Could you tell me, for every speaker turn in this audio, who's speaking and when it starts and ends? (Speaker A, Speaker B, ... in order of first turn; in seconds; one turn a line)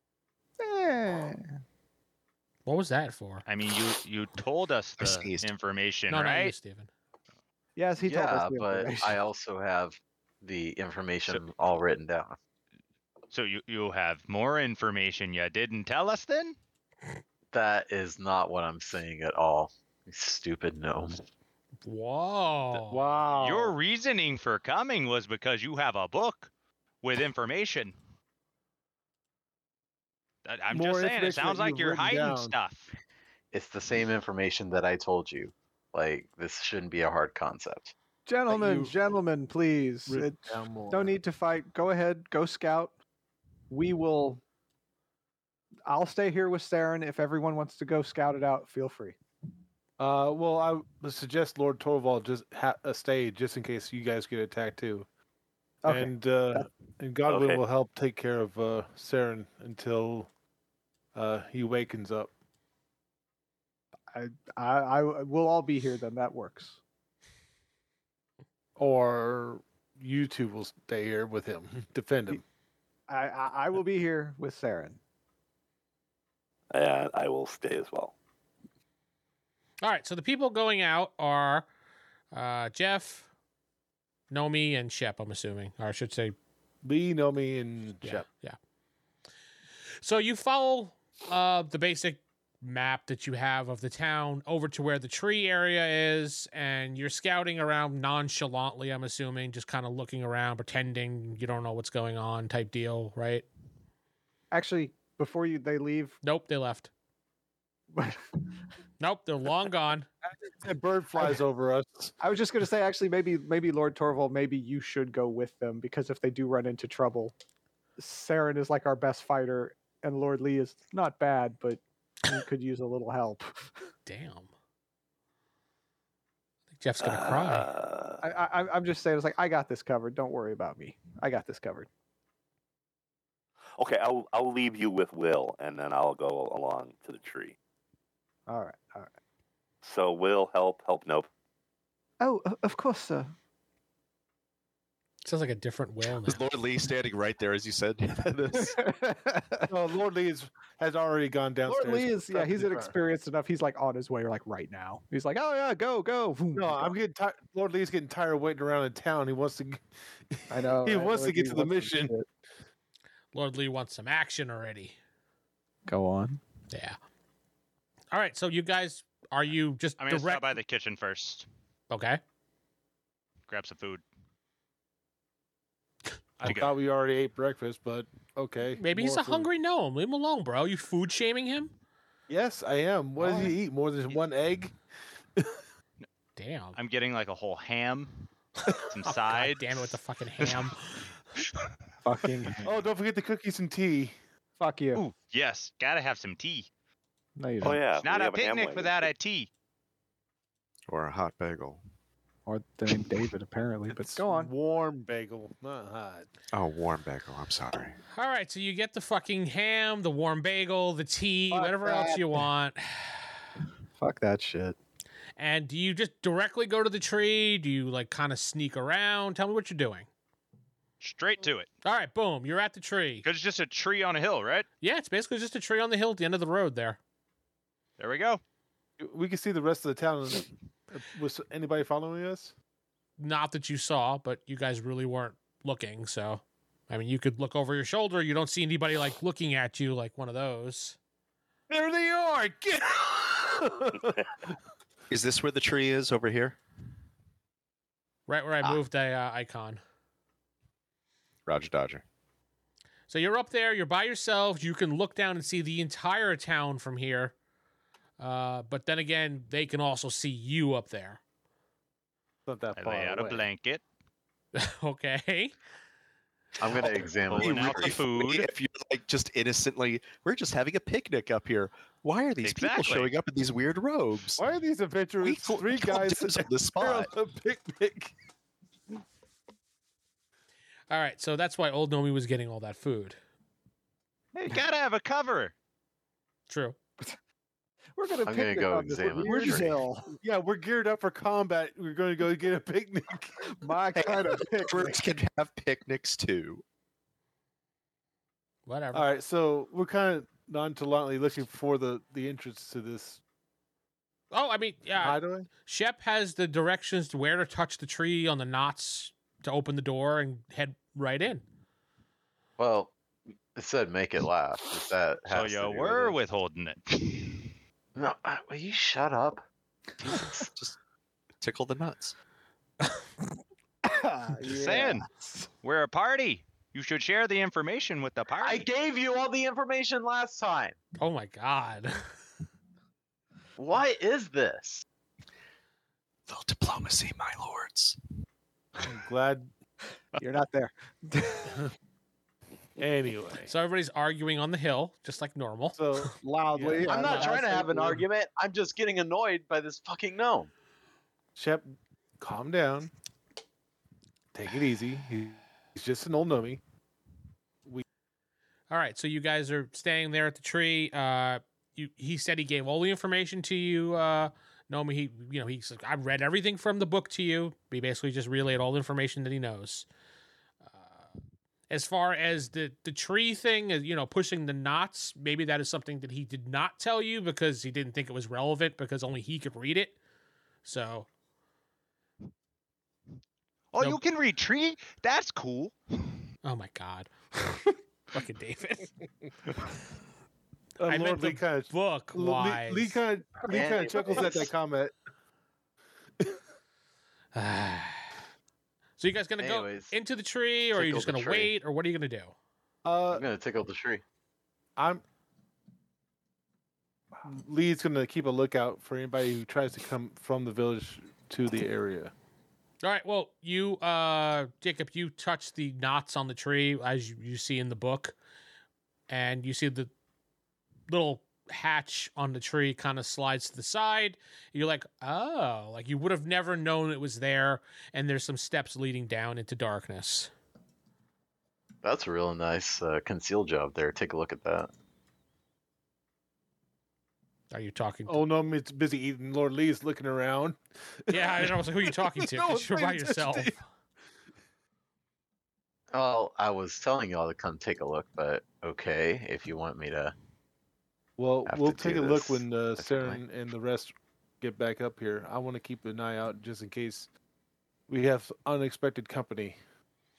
Speaker A: 0.6-1.5
Speaker B: 2.6-3.4
Speaker C: 3.5-6.5
Speaker D: 5.0-5.5
Speaker B: 6.1-6.9
Speaker A: 7.8-9.2
Speaker E: 8.0-12.4
Speaker C: 13.3-16.5
Speaker E: 17.5-21.2
Speaker B: 21.8-23.0
Speaker F: 22.9-23.7
Speaker C: 23.4-26.5
Speaker C: 27.0-27.9
Speaker C: 30.4-32.9
Speaker F: 30.7-32.5
Speaker E: 33.5-37.9
Speaker A: 38.3-42.9
Speaker F: 38.5-38.9
Speaker F: 40.1-41.1
Speaker A: 43.7-44.4
Speaker A: 45.9-49.2
Speaker F: 50.0-55.1
Speaker A: 55.8-56.7
Speaker F: 55.9-60.3
Speaker G: 57.3-57.6
Speaker F: 61.1-62.3
Speaker A: 64.1-66.8
Speaker F: 68.8-72.4
Speaker A: 73.1-75.0
Speaker G: 76.7-78.1
Speaker B: 79.8-81.7
Speaker B: 82.3-83.3
Speaker B: 84.3-86.3
Speaker F: 86.8-88.3
Speaker B: 88.0-88.6
Speaker B: 90.0-103.5
Speaker A: 104.5-106.2
Speaker B: 106.2-106.9
Speaker A: 107.9-108.3
Speaker B: 109.0-110.1
Speaker F: 110.5-112.1
Speaker A: 112.2-117.3
Speaker A: 118.0-123.7
Speaker B: 124.0-124.5
Speaker B: 126.8-127.7
Speaker G: 127.0-128.2
Speaker A: 128.2-131.9
Speaker G: 133.8-137.5
Speaker A: 138.5-139.1
Speaker G: 139.8-141.3
Speaker A: 142.2-143.3
Speaker B: 145.2-146.4
Speaker D: 146.2-148.8
Speaker A: 148.5-149.7
Speaker F: 149.7-152.9
Speaker A: 151.7-156.9
Speaker F: 156.5-162.2
Speaker A: 160.5-162.2
Speaker B: 163.3-164.9
Speaker A: 165.9-166.4
Speaker B: 166.7-167.0
Speaker B: 168.1-170.5
Speaker C: 170.0-171.4
Speaker B: 171.9-172.2
Speaker C: 173.5-174.0
Speaker F: 176.4-179.5
Speaker C: 176.4-176.7
Speaker B: 178.8-181.7
Speaker F: 182.3-184.8
Speaker B: 183.2-183.5
Speaker B: 186.4-186.8
Speaker C: 186.7-188.3
Speaker C: 188.8-190.5
Speaker B: 189.0-191.1
Speaker A: 192.0-192.8
Speaker F: 192.6-194.1
Speaker A: 194.6-195.0
Speaker C: 194.9-196.7
Speaker A: 197.4-197.8
Speaker G: 197.6-199.1
Speaker C: 198.0-199.5
Speaker D: 200.9-201.8
Speaker A: 202.4-204.5
Speaker F: 203.9-206.3
Speaker D: 206.5-208.0
Speaker B: 208.1-213.2
Speaker A: 211.5-212.4
Speaker A: 214.0-214.8
Speaker B: 215.4-220.1
Speaker C: 221.0-221.7
Speaker B: 221.8-223.2
Speaker C: 223.2-224.7
Speaker B: 224.8-227.0
Speaker C: 228.0-228.4
Speaker F: 229.0-232.5
Speaker B: 233.2-241.0
Speaker F: 241.7-244.5
Speaker D: 245.1-246.6
Speaker B: 248.3-249.8
Speaker D: 251.4-252.0
Speaker B: 253.1-257.3
Speaker B: 258.2-261.2
Speaker F: 262.4-263.5
Speaker C: 262.8-263.8
Speaker B: 264.5-265.5
Speaker E: 266.6-268.0
Speaker D: 266.7-274.4
Speaker C: 266.8-268.5
Speaker C: 272.4-273.1
Speaker F: 274.4-278.1
Speaker D: 275.2-277.1
Speaker B: 280.9-283.2
Speaker C: 284.4-285.5
Speaker B: 286.5-286.8
Speaker A: 287.9-290.1
Speaker E: 288.2-289.8
Speaker F: 290.2-293.5
Speaker A: 293.5-295.0
Speaker D: 293.9-296.6
Speaker B: 298.6-299.1
Speaker F: 298.9-303.2
Speaker B: 304.3-311.4
Speaker F: 305.0-305.5
Speaker E: 312.6-312.9
Speaker E: 313.6-316.2
Speaker C: 315.3-317.5
Speaker E: 317.9-319.4
Speaker E: 320.0-320.5
Speaker D: 321.4-322.1
Speaker A: 323.8-325.5
Speaker C: 324.5-325.1
Speaker C: 325.6-328.6
Speaker E: 328.4-330.8
Speaker B: 331.0-332.0
Speaker E: 333.6-334.8
Speaker D: 336.3-338.0
Speaker F: 338.8-339.5
Speaker A: 340.2-341.6
Speaker F: 342.8-343.5
Speaker B: 343.5-346.1
Speaker F: 345.7-348.0
Speaker A: 346.2-348.0
Speaker E: 346.7-350.5
Speaker F: 351.4-352.9
Speaker F: 354.3-356.6
Speaker B: 358.7-369.9
Speaker B: 370.8-371.0
Speaker B: 371.7-380.0
Speaker B: 380.6-381.1
Speaker C: 383.7-385.7
Speaker B: 386.4-388.9
Speaker F: 390.8-394.9
Speaker B: 390.9-393.0
Speaker E: 393.5-394.5
Speaker B: 397.3-398.1
Speaker B: 399.0-402.3
Speaker E: 399.4-399.9
Speaker E: 400.7-401.5
Speaker F: 402.8-403.2
Speaker E: 403.1-404.0
Speaker F: 404.8-405.0
Speaker F: 407.2-412.1
Speaker B: 412.8-418.1
Speaker B: 419.1-419.9
Speaker B: 420.9-430.3
Speaker E: 431.8-434.7
Speaker B: 437.5-438.2
Speaker F: 438.1-443.6
Speaker B: 441.1-443.6
Speaker E: 445.9-450.1
Speaker F: 451.2-457.1
Speaker E: 451.4-453.2
Speaker F: 457.9-459.6